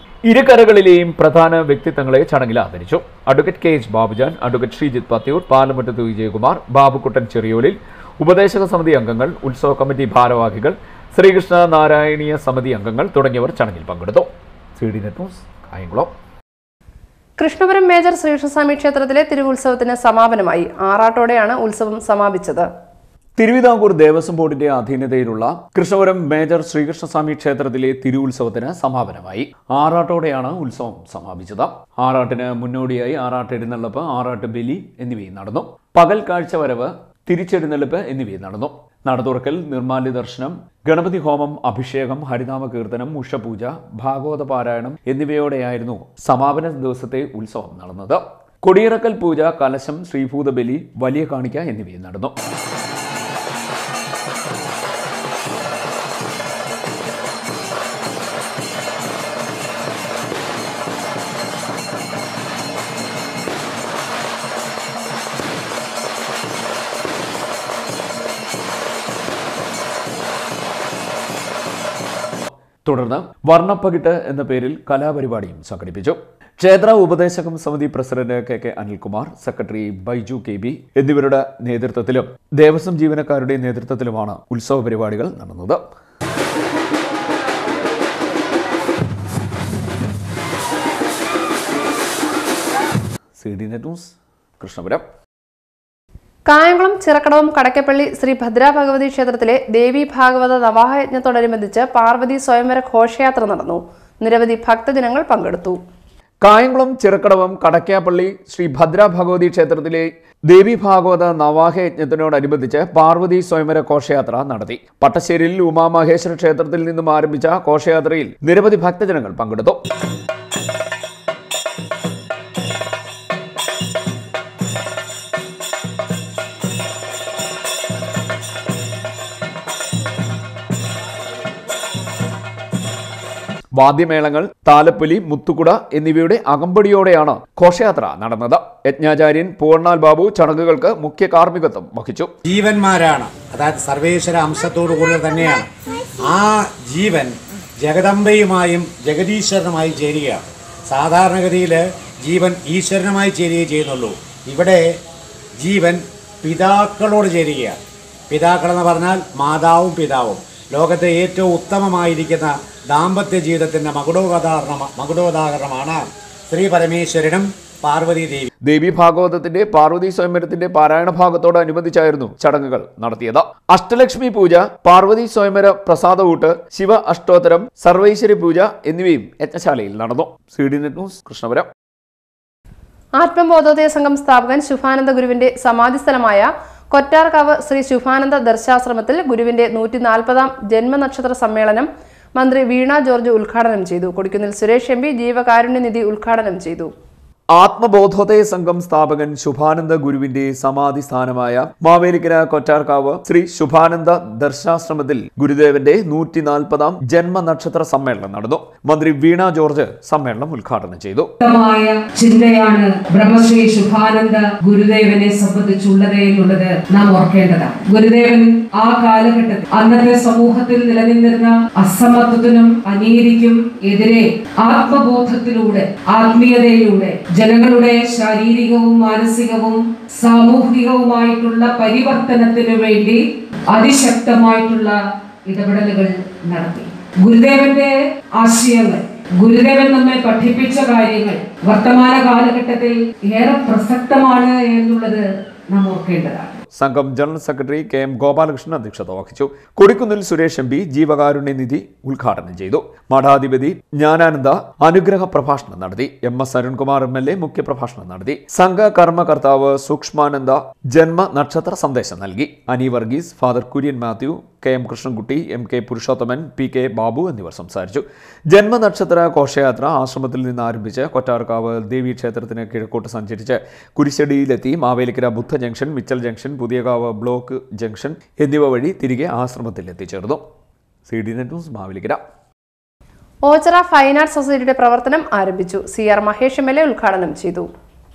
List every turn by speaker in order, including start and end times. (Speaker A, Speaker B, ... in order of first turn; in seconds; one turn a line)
Speaker A: 0.2-16.1
Speaker B: 17.4-22.7
Speaker A: 23.4-52.3
Speaker A: 72.8-85.8
Speaker A: 93.4-95.0
Speaker B: 96.5-105.8
Speaker A: 106.4-119.8
Speaker A: 133.7-142.3
Speaker C: 142.4-145.6
Speaker C: 146.3-154.8
Speaker C: 155.6-157.8
Speaker C: 158.3-166.0
Speaker C: 166.5-168.5
Speaker A: 168.6-181.7
Speaker B: 183.2-196.9
Speaker A: 197.5-211.3
Speaker D: 211.4-246.6
Speaker A: 246.7-280.4
Speaker A: 281.1-282.2
Speaker B: 283.4-287.7